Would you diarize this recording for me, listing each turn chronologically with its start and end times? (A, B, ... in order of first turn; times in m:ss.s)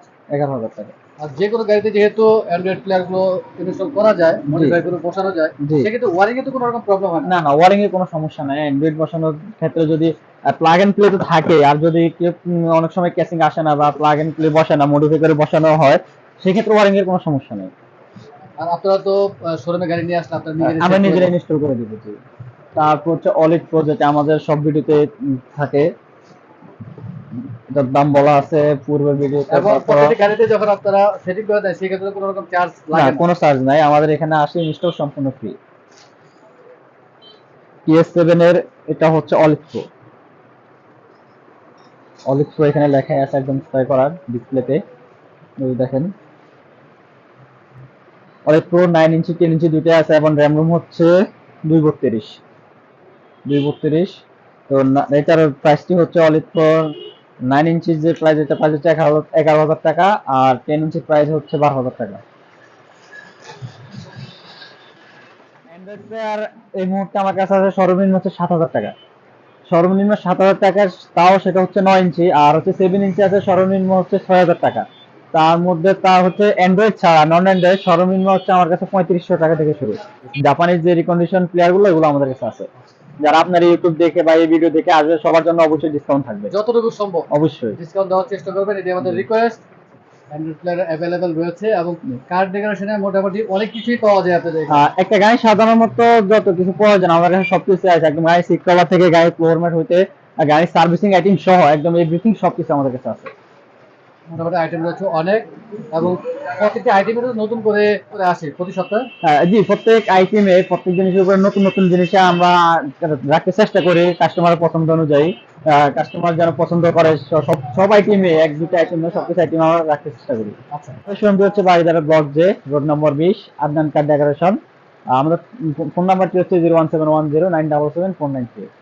0:00.3-0:00.9 A
0:01.2-0:07.3 B
0:04.5-0:04.8 A
0:05.6-0:05.9 A
0:07.2-0:17.7 A
0:18.6-0:21.3 B
0:20.6-0:22.2 A
0:22.7-0:25.9 A
0:27.3-0:30.2 A
0:29.5-0:33.2 B
0:32.9-0:35.6 A
0:37.9-0:39.8 A
0:42.3-0:44.8 A
0:45.6-0:46.1 A
0:48.4-0:51.1 A
0:51.6-0:52.4 A
0:53.5-0:56.9 A
0:57.5-1:02.2 A
1:05.7-1:08.9 A
1:09.7-1:22.7 A
1:23.2-1:26.5 A
1:26.5-1:29.6 B
1:27.3-1:27.8 A
1:30.3-1:34.8 B
1:34.7-1:43.3 A
1:44.3-1:49.1 B
1:49.2-2:04.6 A
2:00.7-2:01.0 B
2:05.1-2:08.7 A